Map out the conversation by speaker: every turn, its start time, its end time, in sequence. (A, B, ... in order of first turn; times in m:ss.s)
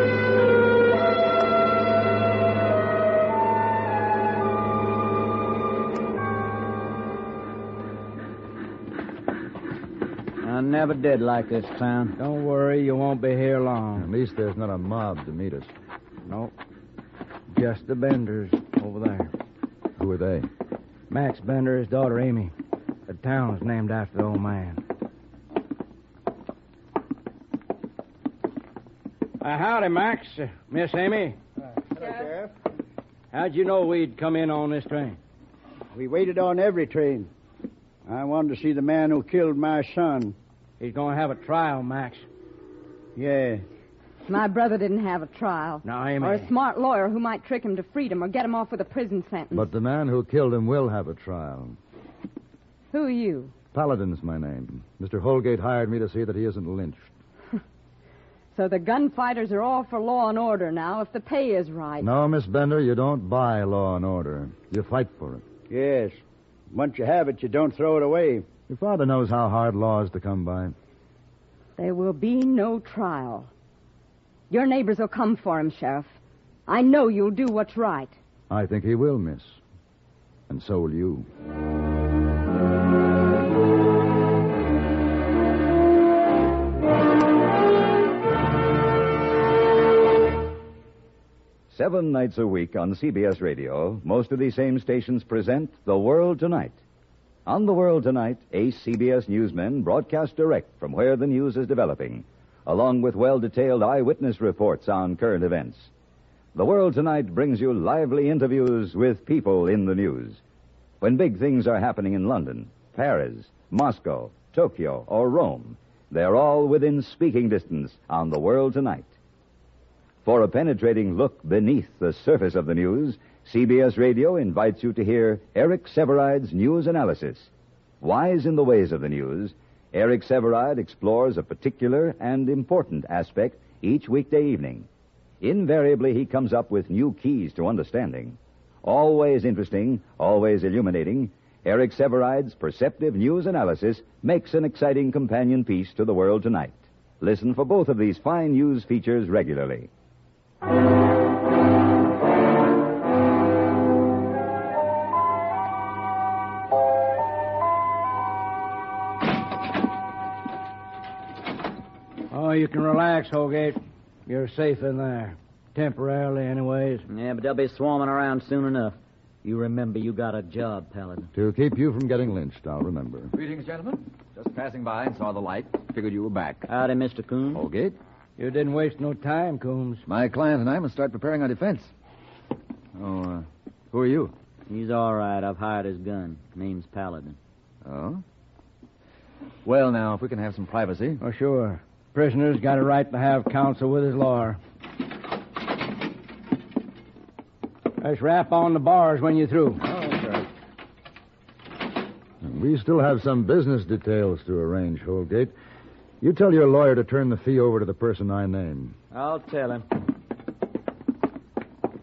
0:10.4-0:12.1 A
0:12.2-0:14.1 B
0:14.0-0:15.7 C
0:16.2-0:16.5 B
0:17.5-0:19.3 B
0:20.0-0:20.5 C
0:21.1-0:22.5 B
0:23.1-0:24.8 B
0:29.4-0:31.4 B
0:32.0-0:32.5 D
0:33.3-0:35.2 B
0:35.9-0:37.3 D
0:38.1-0:40.4 D
0:40.8-0:42.2 B
0:43.2-0:43.6 D
0:44.3-0:49.7 E
0:45.8-0:46.5 B
0:49.5-0:51.8 C
0:52.9-0:53.5 E
0:53.7-0:57.1 C
0:58.5-1:02.1 E
1:02.0-1:05.4 C
1:05.7-1:06.2 D
1:06.7-1:08.4 D
1:08.7-1:10.7 C
1:11.8-1:13.5 E
1:14.5-1:16.2 E
1:16.7-1:18.2 E
1:18.5-1:19.6 C
1:20.5-1:21.3 C
1:31.7-1:36.8 F
1:37.4-1:45.9 F
1:46.5-1:50.4 F
1:51.0-1:59.1 F
2:00.2-2:07.5 F
2:08.0-2:14.9 F
2:15.4-2:29.9 F
2:42.3-2:47.1 B
2:47.1-2:51.3 A
2:51.3-2:53.3 C
2:53.3-2:56.7 G
2:56.7-2:57.6 A
2:57.5-2:58.0 G
2:58.4-3:00.0 B
3:00.1-3:01.9 G
3:03.0-3:04.3 G
3:04.7-3:07.4 A
3:07.8-3:08.2 G
3:09.6-3:11.2 G
3:11.2-3:14.6 B
3:18.0-3:19.8 B
3:19.9-3:20.5 G
3:22.4-3:25.5 C
3:26.2-3:28.9 C
3:29.1-3:29.8 A